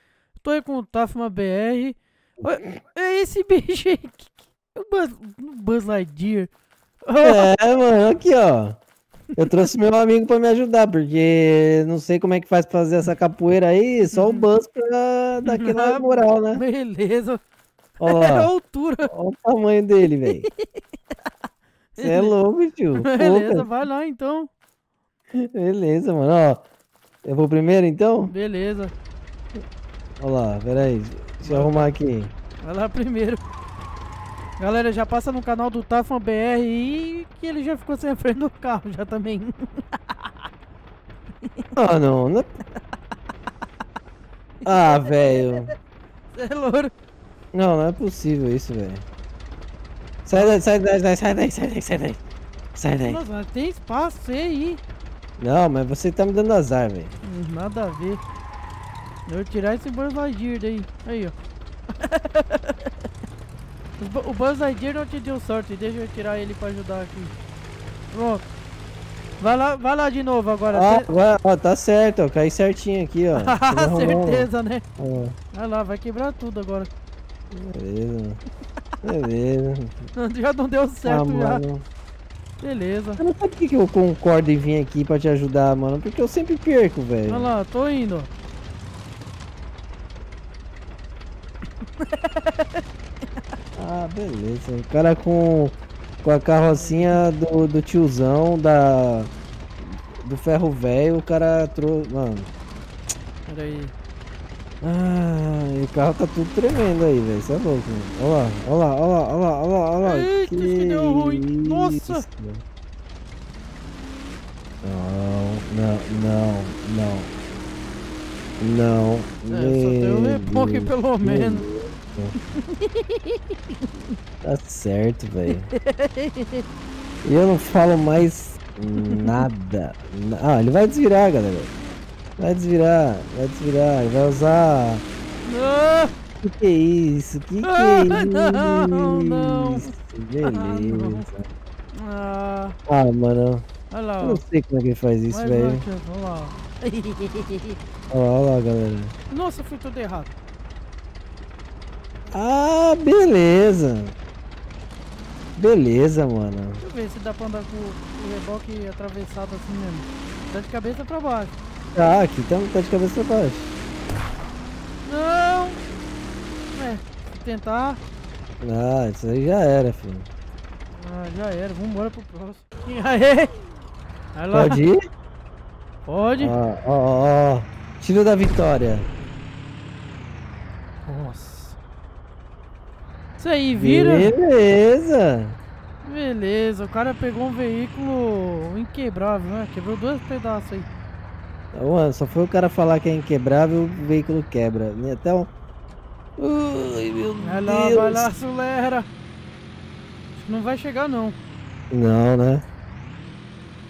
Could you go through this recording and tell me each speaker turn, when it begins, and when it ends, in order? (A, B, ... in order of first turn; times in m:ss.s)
0:00.4-0:06.5 A
0:07.0-0:07.5 A
0:07.2-0:08.8 B
0:09.4-0:16.6 B
0:14.1-0:14.5 A
0:15.4-0:17.4 A
0:18.0-0:19.1 A
0:18.0-0:18.5 B
0:19.1-0:20.5 B
0:20.2-0:20.6 A
0:22.0-0:22.4 A
0:22.0-0:23.7 B
0:22.9-0:24.5 A
0:25.3-0:26.6 B
0:27.2-0:28.3 B
0:28.3-0:28.9 A
0:30.2-0:32.3 B
0:31.4-0:31.9 A
0:32.6-0:33.4 A
0:34.6-0:40.3 A
0:41.4-0:41.7 A
0:41.8-0:42.6 B
0:44.6-0:45.7 A
0:44.6-0:45.7 B
0:46.3-0:46.9 A
0:47.5-0:49.0 B
0:50.2-0:52.2 B
0:50.3-0:50.6 A
0:52.8-0:53.2 B
0:53.0-0:54.8 A
0:55.4-0:57.1 B
0:57.2-0:58.2 A
0:59.2-1:01.3 A
1:02.0-1:02.9 A
1:04.0-1:07.3 A
1:08.1-1:08.5 A
1:09.4-1:11.1 A
1:10.7-1:15.4 B
1:13.4-1:14.8 A
1:15.5-1:16.9 A
1:17.5-1:18.4 B
1:19.0-1:20.0 B
1:20.2-1:21.6 A
1:21.0-1:21.8 B
1:22.6-1:23.2 A
1:23.2-1:27.5 B
1:27.3-1:28.3 A
1:32.0-1:32.8 A
1:33.8-1:39.3 B
1:36.7-1:37.2 A
1:39.8-1:42.5 B
1:43.4-1:43.9 A
1:44.8-1:52.6 B
1:50.0-1:52.2 A
1:54.8-1:57.3 B
1:58.6-2:02.3 B
1:59.5-2:01.7 A
2:02.6-2:03.8 A
2:04.4-2:05.7 B
2:05.5-2:06.6 A
2:07.2-2:11.7 B
2:09.0-2:09.4 A
2:12.4-2:15.0 B
2:15.4-2:16.1 A
2:16.4-2:21.4 B
2:17.6-2:21.3 A
2:21.9-2:22.8 A
2:22.9-2:23.6 B
2:23.9-2:24.4 A
2:24.2-2:25.8 B
2:25.3-2:27.8 A
2:28.1-2:29.1 B
2:29.3-2:30.3 A
2:32.3-2:34.1 B
2:35.6-2:36.8 B
2:36.8-2:41.5 A
2:41.9-2:43.7 B
2:45.0-2:45.8 A
2:46.7-2:48.0 A
2:48.6-2:50.3 B
2:50.9-2:53.5 A
2:54.3-2:54.8 A
2:54.5-2:55.0 B
2:56.0-2:56.5 A
2:56.4-2:59.1 B
3:01.0-3:01.8 A
3:03.4-3:04.3 A
3:03.8-3:05.6 B
3:06.0-3:10.9 A
3:11.7-3:15.5 B
3:16.4-3:18.3 B
3:17.4-3:19.1 A
3:20.3-3:21.4 A
3:21.9-3:22.6 B